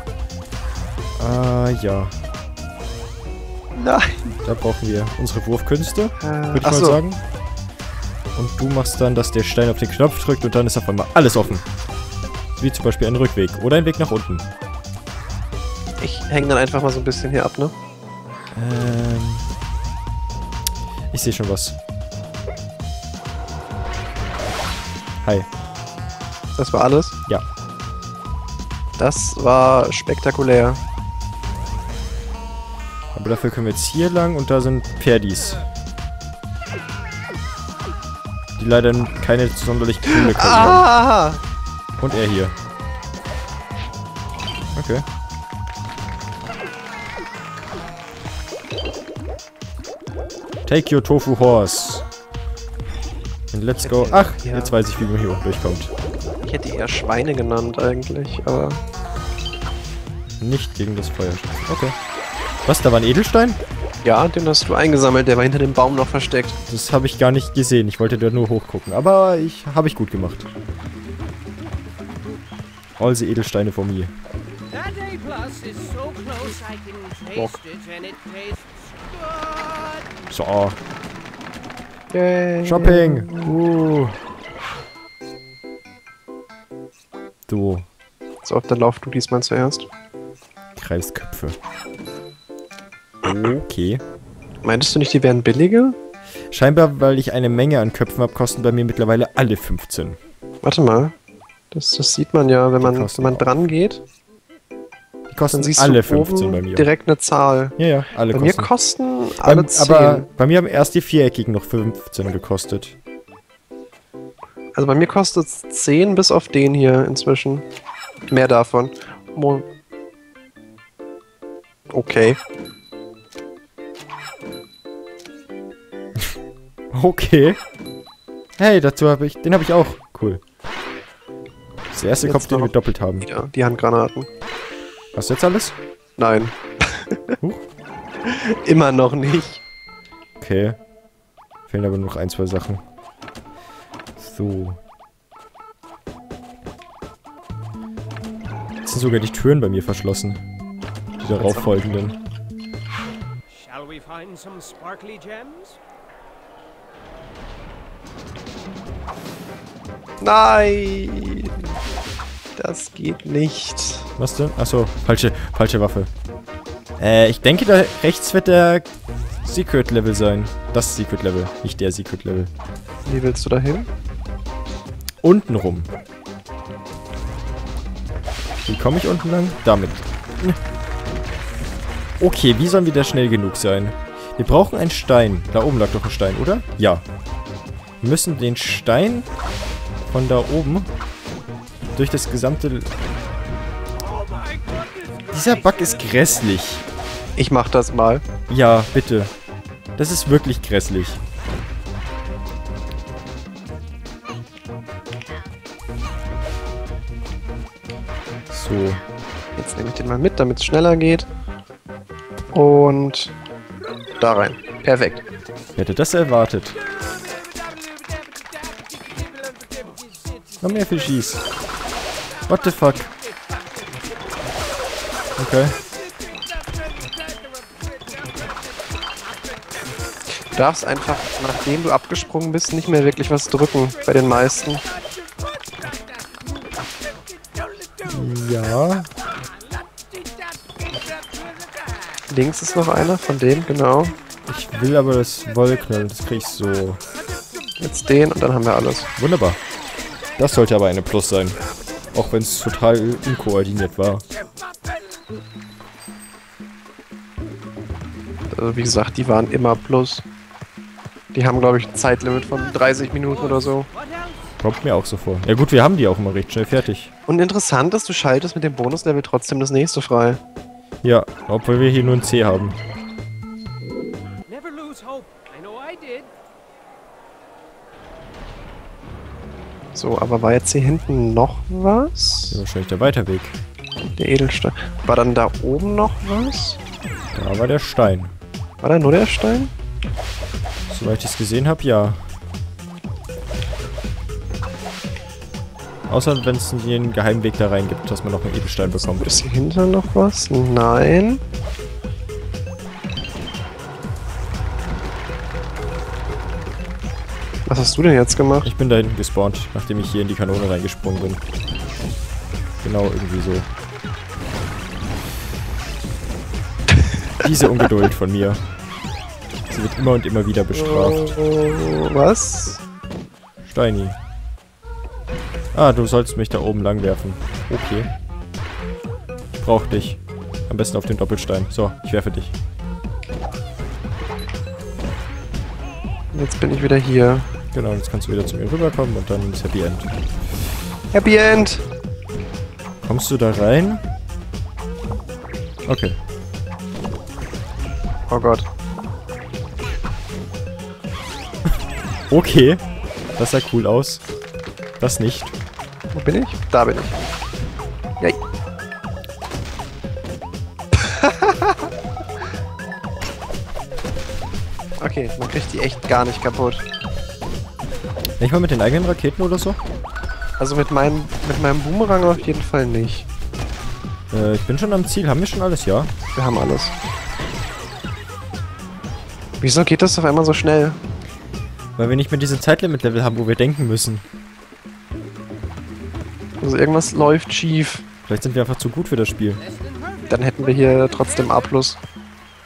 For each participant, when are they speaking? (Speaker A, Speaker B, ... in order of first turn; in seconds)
Speaker A: 1.2-2.1, 4.4-7.2, 8.3-11.6, 12.5-14.4, 18.5-19.5, 21.1-21.8, 33.1-35.6, 38.6-40.9, 42.0-42.5, 44.7-45.0, 50.6-52.0, 53.5-55.9, 60.4-62.0, 62.6-63.6, 66.7-70.5, 73.0-74.1, 80.3-80.8, 82.6-84.2, 87.5-87.9, 90.8-91.5, 93.2-94.0, 96.5-100.2, 102.8-103.7, 105.3-106.9, 107.8-108.7, 109.4-113.0, 126.9-127.6, 128.6-130.4, 131.9-133.3, 135.1-135.8, 140.4-140.8, 141.7-142.8, 144.2-144.8, 148.8-150.4, 151.2-152.2, 164.2-166.1, 167.0-168.9, 169.4-172.5, 175.2-175.9, 178.7-180.6, 182.2-187.0, 188.0-189.3, 190.1-190.9, 191.9-192.9, 195.3-196.8, 198.5-199.3, 200.0-201.2, 208.5-209.0, 215.8-216.8, 220.6-221.4, 222.5-223.1, 225.4-225.8, 238.0-239.1, 244.5-247.0, 249.2-249.6, 250.4-251.6, 252.1-254.2, 264.6-267.1, 271.0-272.8, 282.5-283.6, 287.3-288.3, 290.9-292.2, 296.1-299.4, 308.6-311.4, 312.8-313.7, 317.4-318.6, 319.6-321.2, 323.6-324.2, 325.7-328.1, 329.5-332.5, 337.7-340.1, 343.0-344.0, 345.9-346.2, 352.3-352.8, 353.4-354.2, 355.0-355.5, 368.4-369.8, 374.3-376.1, 382.0-384.2, 388.3-389.6
Speaker B: 3.8-4.3, 6.2-7.0, 16.0-17.7, 26.6-27.1, 29.0-30.8, 40.1-41.4, 53.8-54.8, 56.4-58.8, 64.0-66.6, 77.3-77.6, 82.1-83.5, 88.4-89.9, 94.6-96.0, 100.6-101.1, 101.7-104.0, 105.5-107.8, 108.3-110.3, 114.7-117.6, 118.3-119.7, 121.9-122.4, 132.2-134.3, 136.2-137.4, 138.2-139.6, 151.3-151.7, 160.2-161.7, 162.6-164.1, 173.1-173.9, 197.3-198.2, 209.6-211.3, 212.5-213.3, 214.2-215.2, 230.5-234.8, 242.3-244.2, 247.8-249.1, 258.5-260.2, 261.3-263.9, 267.3-270.4, 279.9-282.6, 284.2-286.8, 288.8-289.7, 298.9-301.4, 307.6-308.7, 320.7-322.8, 336.3-337.5, 341.1-341.8, 348.3-348.6, 356.1-357.2, 361.0-361.8, 365.0-366.8, 370.6-373.3, 376.3-376.9, 379.6-381.0, 386.6-388.0, 390.3-392.0
Speaker C: 75.0-78.6, 153.7-155.7, 274.6-276.3